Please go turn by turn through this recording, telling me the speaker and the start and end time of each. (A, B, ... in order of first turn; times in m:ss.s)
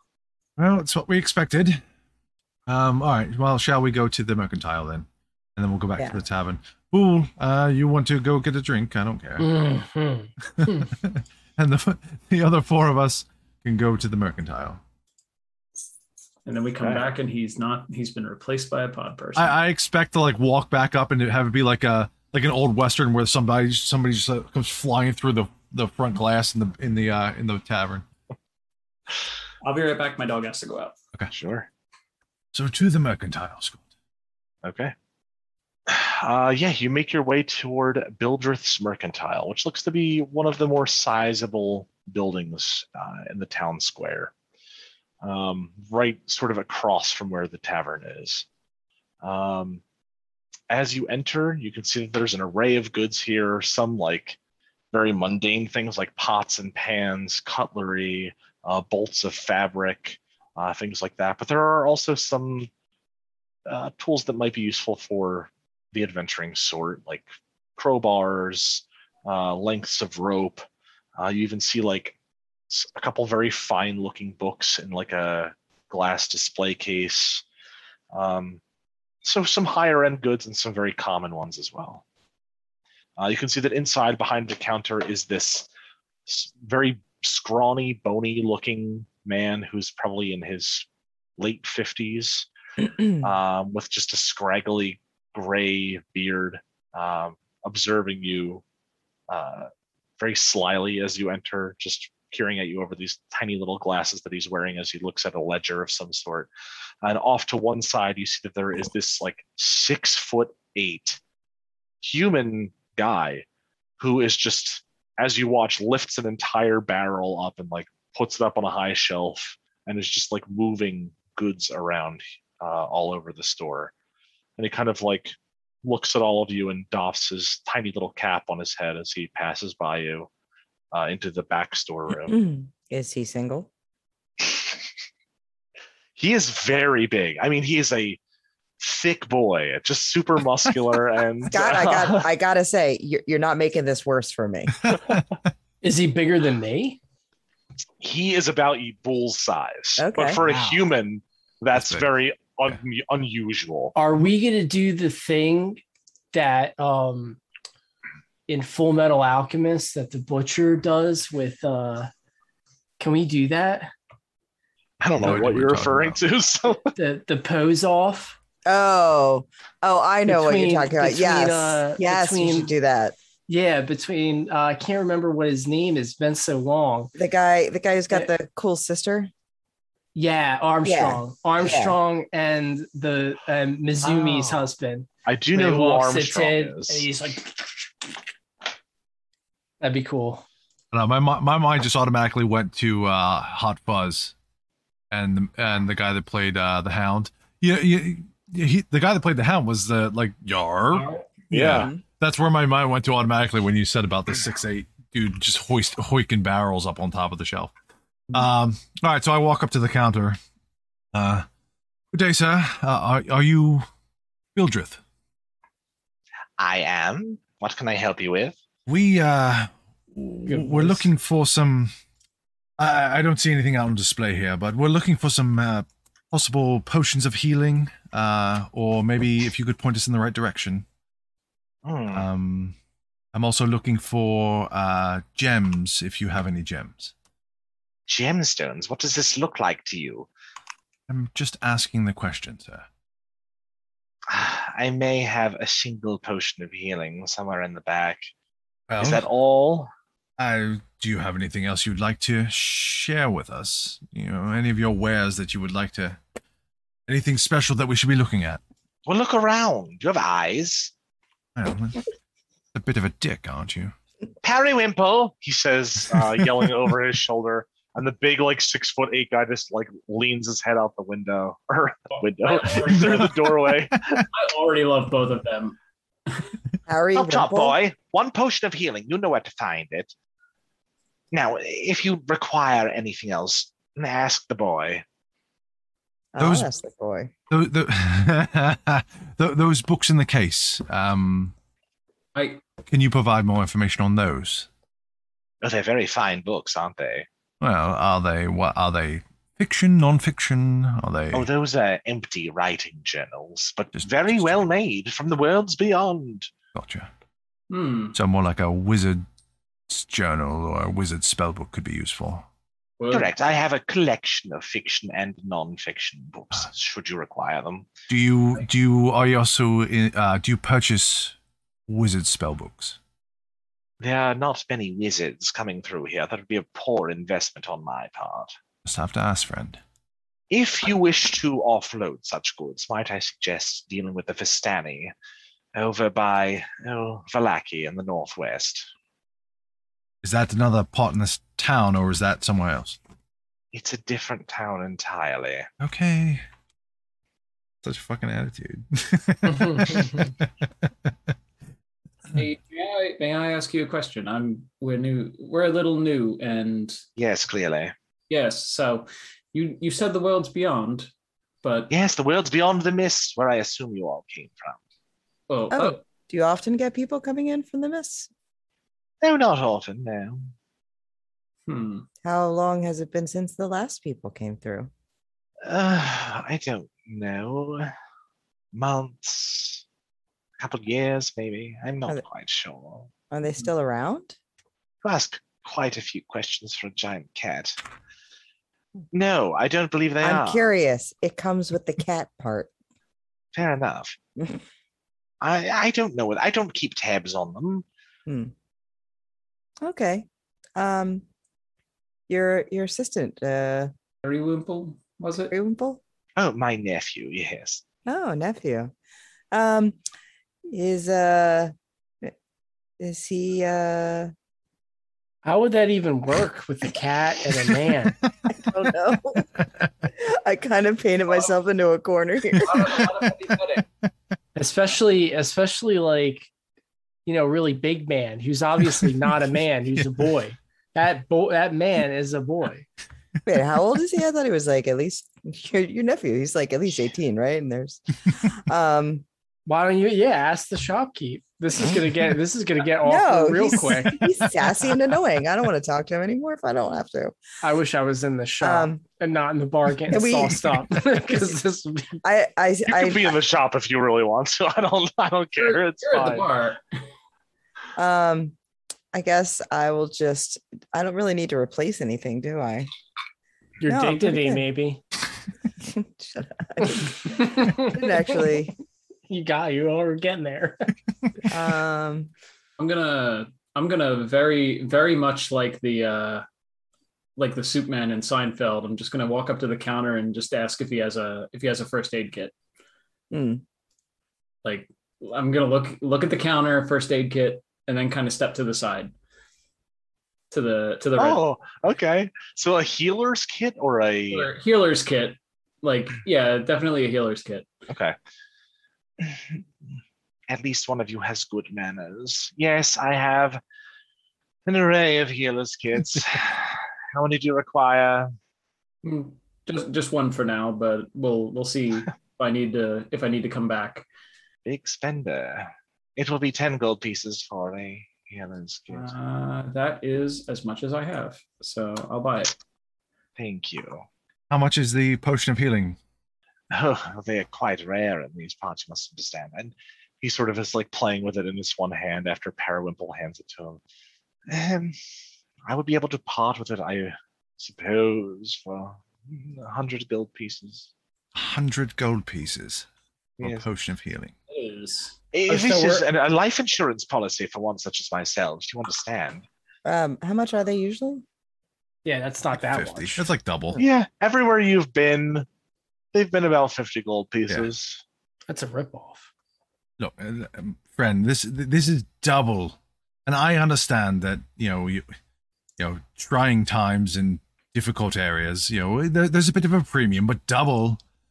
0:00.6-0:01.8 A
0:02.7-0:09.5 A
0:09.4-0:10.9 B
0:10.5-0:14.8 A
0:16.4-0:19.5 C
0:16.8-0:17.1 D
0:19.3-0:28.0 A
0:29.6-0:30.9 C
0:31.3-0:31.7 D
0:32.5-0:33.8 A
0:34.6-0:34.9 D
0:35.9-0:44.3 D
0:45.2-0:48.4 D
0:49.2-0:49.8 D
0:50.7-0:54.4 D
0:54.9-1:02.7 D
1:03.6-1:07.2 D
1:07.8-1:10.6 D
1:11.2-1:12.2 D
1:12.7-1:17.4 D
1:18.1-1:18.6 D
1:19.2-1:22.0 D
1:23.2-1:25.7 D
1:26.3-1:30.8 D
1:31.4-1:32.5 D
1:33.1-1:38.6 D
1:39.3-1:46.5 D
1:47.0-1:51.2 D
1:52.0-1:53.4 D
1:54.0-2:03.9 D
2:04.6-2:10.3 D
2:10.9-2:12.4 D
2:12.2-2:13.7 E
2:14.4-2:14.7 D
2:16.2-2:18.2 D
2:18.8-2:22.3 D
2:21.4-2:24.8 E
2:24.9-2:25.2 A
2:25.8-2:27.0 B
2:28.0-2:33.9 D
2:30.0-2:30.4 E
2:30.4-2:30.8 B
2:31.7-2:32.1 A
2:33.9-2:37.4 B
2:38.5-2:42.1 B
2:43.0-2:43.9 B
2:45.0-2:46.9 D
2:45.2-2:46.2 A
2:47.0-2:48.4 B
2:48.6-2:53.1 E
2:50.3-2:52.7 B
2:53.5-2:57.1 B
2:57.1-2:59.3 E
3:00.1-3:08.1 B
3:00.8-3:02.0 E
3:05.2-3:07.1 D
3:09.8-3:10.4 B
3:10.9-3:14.3 A
3:15.1-3:27.7 A
3:21.5-3:21.9 D
3:28.3-3:30.4 A
3:31.1-3:31.4 A
3:32.1-3:33.9 A
3:34.5-3:35.0 A
3:36.6-3:38.6 D
3:38.9-3:41.9 A
3:40.5-3:41.1 B
3:42.8-3:50.8 A
3:51.8-3:52.3 D
3:52.1-3:52.8 A
3:53.3-3:57.1 A
3:58.1-4:00.3 D
4:01.1-4:02.8 A
4:04.3-4:08.3 D
4:08.9-4:09.2 A
4:09.0-4:09.9 D
4:10.4-4:16.2 A
4:17.1-4:18.6 A
4:19.0-4:20.9 D
4:21.6-4:22.0 A
4:22.7-4:23.9 A
4:24.4-4:34.1 D
4:32.1-4:33.4 C
4:34.3-4:35.8 C
4:36.9-4:37.8 E
4:37.1-4:40.1 D
4:41.3-4:45.0 D
4:46.3-4:47.3 E
4:46.4-4:46.7 A
4:47.5-4:51.5 A
4:52.3-4:52.6 C
4:52.8-4:54.7 A
4:55.6-4:57.3 D
4:57.6-5:01.5 A
5:01.3-5:06.5 D
5:03.9-5:04.6 A
5:06.7-5:07.1 A
5:07.7-5:08.2 C
5:08.1-5:09.2 A
5:09.9-5:12.5 A
5:13.0-5:13.3 C
5:13.1-5:17.9 D
5:18.1-5:21.3 A
5:21.9-5:23.0 A
5:24.0-5:28.5 D
5:28.8-5:29.8 A
5:30.5-5:35.1 D
5:35.7-5:38.9 D
5:40.2-5:43.0 A
5:43.7-5:45.7 D
5:45.8-5:46.4 A
5:47.8-5:50.5 A
5:49.6-5:50.0 B
5:52.3-5:57.0 C
5:57.2-5:57.9 D
5:58.3-6:01.1 C
6:01.6-6:01.9 C
6:01.9-6:04.8 D
6:05.5-6:06.0 C
6:05.7-6:08.3 E
6:09.2-6:10.5 D
6:11.7-6:12.0 C
6:12.2-6:14.9 E
6:15.6-6:17.9 D
6:18.7-6:19.8 D
6:20.6-6:23.1 D
6:23.3-6:24.4 E
6:25.0-6:27.8 D
6:29.1-6:30.6 D
6:30.2-6:32.7 E
6:33.5-6:34.2 D
6:34.4-6:34.6 E
6:35.4-6:37.8 D
6:38.2-6:38.5 E
6:39.8-6:41.2 E
6:42.3-6:43.9 E
6:44.2-6:45.5 C
6:45.5-6:46.0 E
6:46.4-6:47.8 D
6:48.0-6:48.9 E
6:49.5-6:50.0 E
6:50.7-6:52.3 E
6:53.0-6:54.3 E
6:55.4-6:58.2 B
6:58.5-6:59.5 E
7:00.1-7:03.0 E
7:02.6-7:03.8 C
7:04.5-7:06.5 B
7:07.2-7:12.8 B
7:13.4-7:19.2 E
7:19.6-7:24.6 B
7:23.0-7:27.4 E
7:27.6-7:32.2 B
7:28.6-7:29.0 E
7:30.1-7:30.8 E
7:32.2-7:33.3 E
7:32.9-7:36.4 D
7:35.6-7:36.8 C
7:38.0-7:38.5 E
7:39.1-7:42.9 E
7:43.8-7:45.0 B
7:43.8-7:44.6 E
7:45.8-7:48.7 E
7:46.9-7:48.6 B
7:49.3-7:50.9 B
7:51.5-7:52.3 E
7:52.8-7:56.4 C
7:57.4-8:02.5 C
8:03.3-8:03.6 E
8:04.6-8:09.1 C
8:10.5-8:11.4 C
8:11.2-8:14.5 D
8:14.3-8:17.7 C
8:17.9-8:18.2 D
8:19.2-8:19.6 D
8:20.5-8:23.6 D
8:24.6-8:28.3 D
8:29.0-8:34.1 C
8:34.6-8:39.1 D
8:38.9-8:42.5 C
8:43.4-8:44.0 D
8:44.5-8:46.0 A
8:46.7-8:53.8 D
8:54.5-8:55.0 D
8:55.7-9:00.9 D
9:01.3-9:02.9 A
9:03.4-9:04.3 A
9:03.4-9:03.6 D
9:04.5-9:05.1 C
9:05.3-9:09.4 D
9:05.5-9:06.0 B
9:09.8-9:11.2 E
9:12.0-9:13.3 B
9:12.6-9:13.8 A
9:13.8-9:15.4 D
9:16.1-9:18.0 D
9:18.5-9:19.3 B
9:20.0-9:25.1 A
9:25.8-9:31.0 A